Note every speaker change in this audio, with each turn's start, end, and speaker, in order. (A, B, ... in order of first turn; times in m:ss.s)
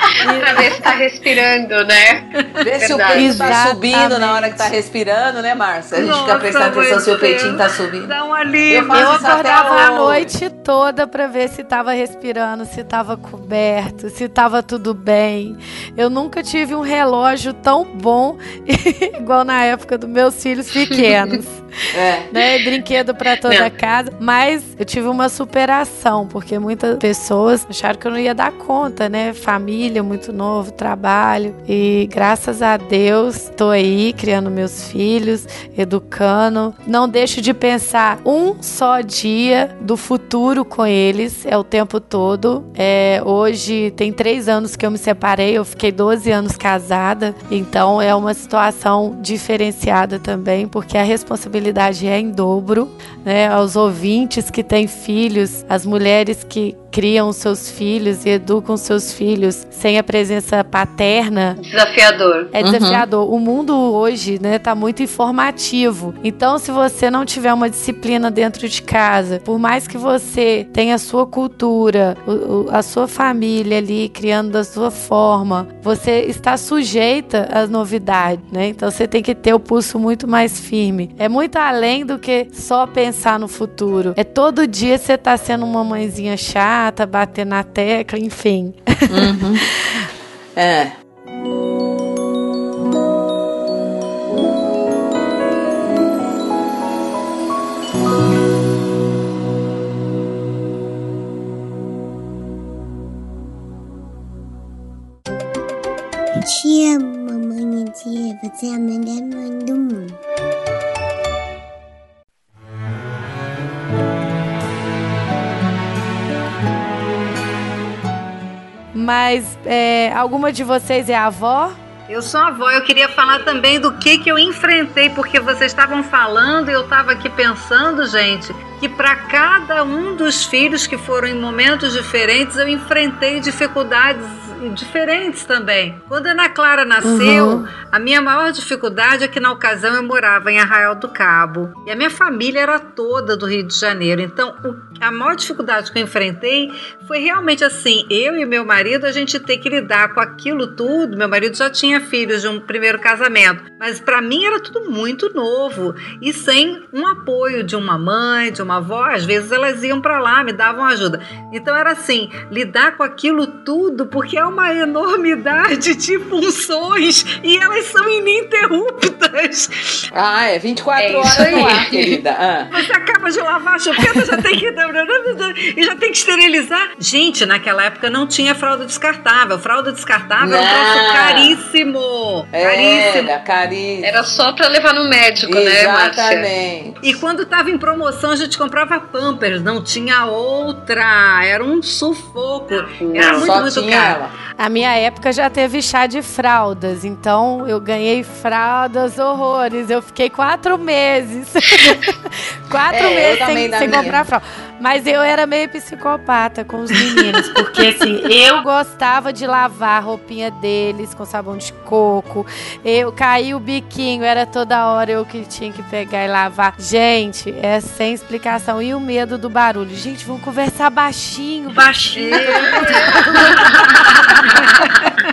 0:00.2-0:00.7 A
0:00.4-0:03.6 B
0:02.6-0:08.2 C
0:03.2-0:04.7 A
0:06.0-0:09.5 D
0:08.7-0:10.3 C
0:08.9-1:01.6 A
0:21.9-0:22.3 C
0:23.4-0:23.7 B
1:01.6-1:02.5 B
1:02.5-1:29.4 A
1:02.6-1:03.0 C
1:29.1-1:29.7 C
1:30.6-1:31.0 C
1:46.5-1:50.1 E
1:58.9-2:01.8 A
2:02.1-2:50.0 D
2:17.0-2:17.7 A
2:50.1-2:52.7 C
2:51.0-2:52.2 B
2:52.7-3:03.3 D
3:00.4-3:01.6 C
3:02.5-3:04.1 C
3:04.0-3:06.5 B
3:05.4-3:07.2 C
3:07.0-3:14.2 D
3:12.7-3:13.6 B
3:13.3-3:14.3 C
3:14.6-3:43.6 A
3:22.9-3:24.2 C
3:42.2-3:43.2 D